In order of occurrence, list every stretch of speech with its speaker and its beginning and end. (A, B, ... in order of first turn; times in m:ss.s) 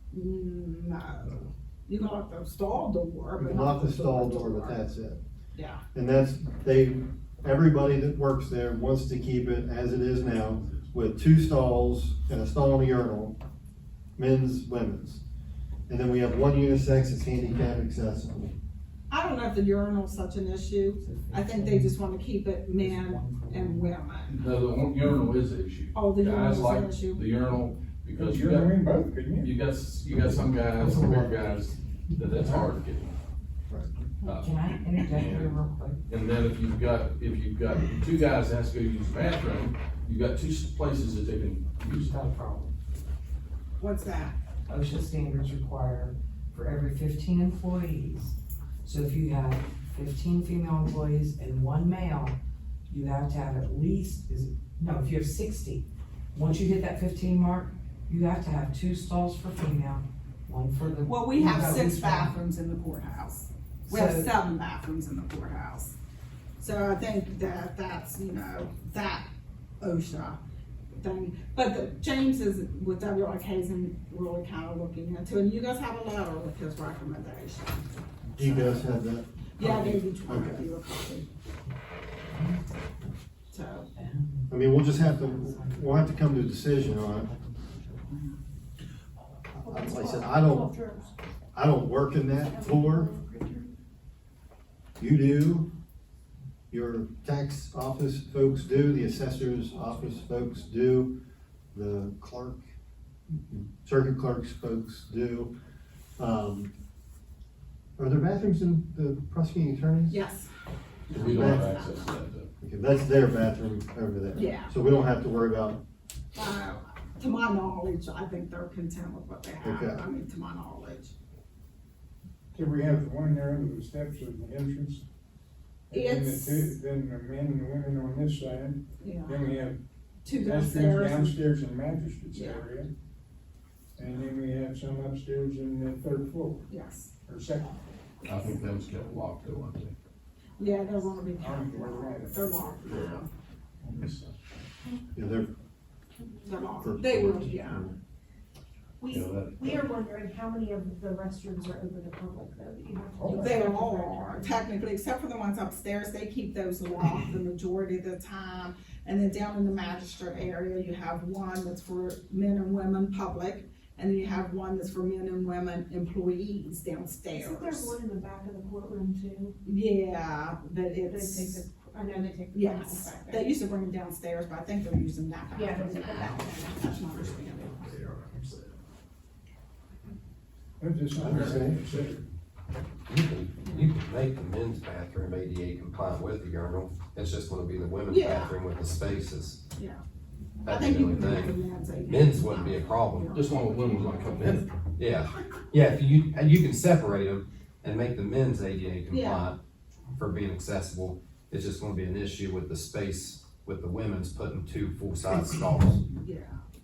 0:00.1-0:04.8 A
0:03.4-0:05.2 B
0:05.6-0:05.8 A
0:05.9-0:13.4 B
0:14.2-0:15.2 B
0:15.9-0:18.5 B
0:19.1-0:24.4 A
0:21.1-0:22.0 C
0:22.8-0:23.9 C
0:24.3-0:28.8 D
0:25.9-0:27.3 A
0:28.2-0:29.5 E
0:29.4-0:33.2 D
0:30.8-0:32.4 C
0:33.7-0:33.9 B
0:34.2-0:35.6 D
0:34.3-0:36.0 C
0:36.1-0:42.1 D
0:41.9-0:42.7 C
0:43.8-0:44.4 A
0:44.7-0:52.4 C
0:52.9-1:02.4 C
1:01.0-1:06.0 A
1:03.9-1:04.3 C
1:06.6-1:09.2 A
1:09.8-1:10.4 A
1:11.0-1:17.9 A
1:18.4-1:20.6 B
1:19.6-1:21.3 A
1:22.3-1:22.6 C
1:23.5-1:23.9 A
1:23.9-1:26.1 C
1:24.5-1:27.3 B
1:27.0-1:28.2 C
1:29.6-1:30.7 B
1:29.6-1:31.2 F
1:31.6-1:33.1 B
1:32.4-1:33.7 F
1:35.0-1:35.7 B
1:36.7-1:41.2 B
1:41.7-1:42.6 B
1:43.3-1:45.5 B
1:46.2-1:46.7 B
1:48.0-1:50.2 B
1:50.1-1:50.5 A
1:51.1-1:52.5 D
1:51.1-1:51.8 B
1:51.2-1:52.0 A
1:52.6-1:55.8 B
1:54.3-1:54.7 A
1:56.3-2:01.1 A
1:59.6-2:00.0 B
2:02.5-2:05.0 E
2:05.9-2:09.8 E
2:05.9-2:06.7 A
2:09.0-2:09.4 A
2:10.2-2:11.4 A
2:10.3-2:12.9 E
2:12.3-2:12.6 A
2:14.0-2:16.6 E
2:16.7-2:17.1 A
2:17.3-2:17.7 E
2:18.2-2:19.9 D
2:20.6-2:23.3 A
2:21.4-2:23.1 E
2:22.9-2:23.2 D
2:23.9-2:24.3 D
2:25.2-2:25.5 B
2:26.4-2:27.8 A
2:26.8-2:28.0 B
2:29.0-2:34.6 F
2:29.1-2:29.9 D
2:33.2-2:48.0 A
2:47.3-2:49.6 F
2:49.6-2:51.6 A
2:51.0-2:53.5 F
2:52.3-2:57.9 A
2:55.5-2:57.9 F
2:57.8-2:58.8 D
3:00.8-3:02.2 E
3:01.2-3:01.8 B
3:03.1-3:09.6 G
3:03.6-3:03.9 A
3:08.1-3:08.6 A
3:09.8-3:10.0 A
3:10.7-3:13.3 G
3:10.7-3:14.6 A
3:13.3-3:14.7 D
3:15.0-3:19.6 G
3:19.1-3:19.5 A
3:20.2-3:26.0 G
3:25.3-3:26.6 A